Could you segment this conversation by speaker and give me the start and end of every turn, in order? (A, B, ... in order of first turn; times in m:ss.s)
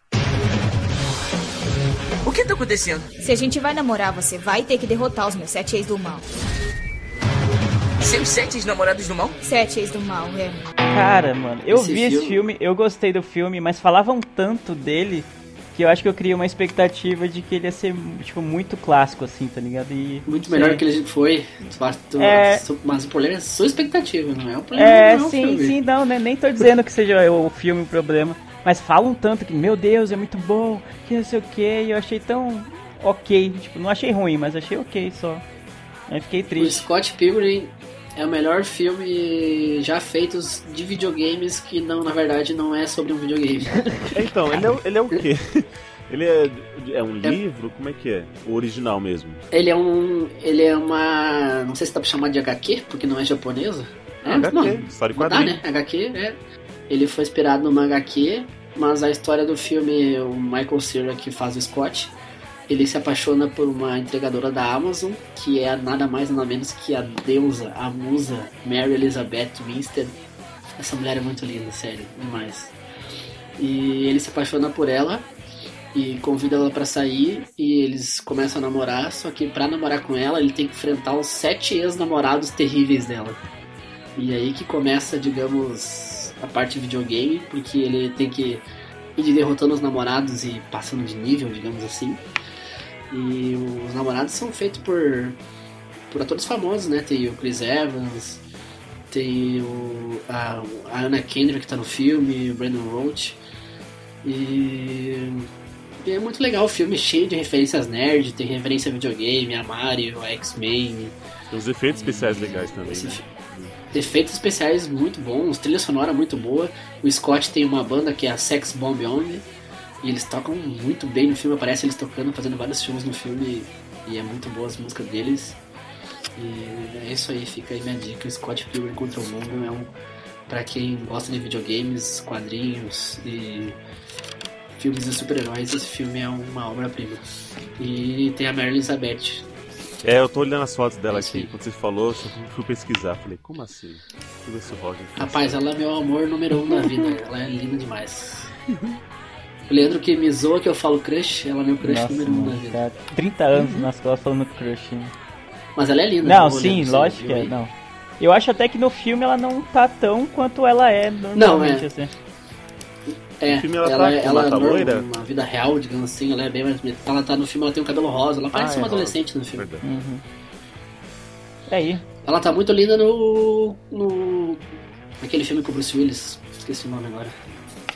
0:02.2-0:03.1 A
0:03.2-0:06.3 B
0:08.0-0:09.4 A
0:09.4-0:10.6 B
0:10.9-0:20.8 C
0:11.7-0:12.4 D
0:20.3-0:25.8 D
0:22.2-0:22.6 C
0:24.8-0:35.4 C
0:36.1-0:36.8 C
0:36.6-0:44.1 D
0:44.1-0:49.4 E
0:49.5-0:56.4 D
0:54.2-0:55.6 E
0:56.9-1:02.1 D
1:02.7-1:10.1 D
1:10.8-1:12.7 D
1:13.6-1:15.3 D
1:15.9-1:23.4 D
1:24.2-1:28.6 D
1:29.2-1:32.2 D
1:33.1-1:35.4 D
1:36.1-1:38.4 D
1:39.1-1:43.4 D
1:44.2-1:45.5 D
1:46.0-1:51.2 D
1:51.5-1:53.8 E
1:52.0-1:53.2 D
1:53.9-1:59.4 D
2:00.0-2:05.6 D
2:06.4-2:09.9 D
2:10.5-2:13.8 D
2:14.8-2:17.2 D
2:17.8-2:19.4 D
2:20.0-2:25.6 E
2:21.1-2:21.5 D
2:25.2-2:28.5 D
2:29.7-2:32.8 D
2:31.8-2:35.1 C
2:33.5-2:33.9 D
2:35.8-2:37.5 D
2:36.2-2:42.1 C
2:41.3-2:41.9 D
2:43.1-2:49.7 D
2:43.5-2:45.0 E
2:48.5-2:49.9 E
2:49.8-2:50.2 C
2:51.7-2:52.0 C
2:52.2-2:54.6 D
2:55.2-2:57.3 D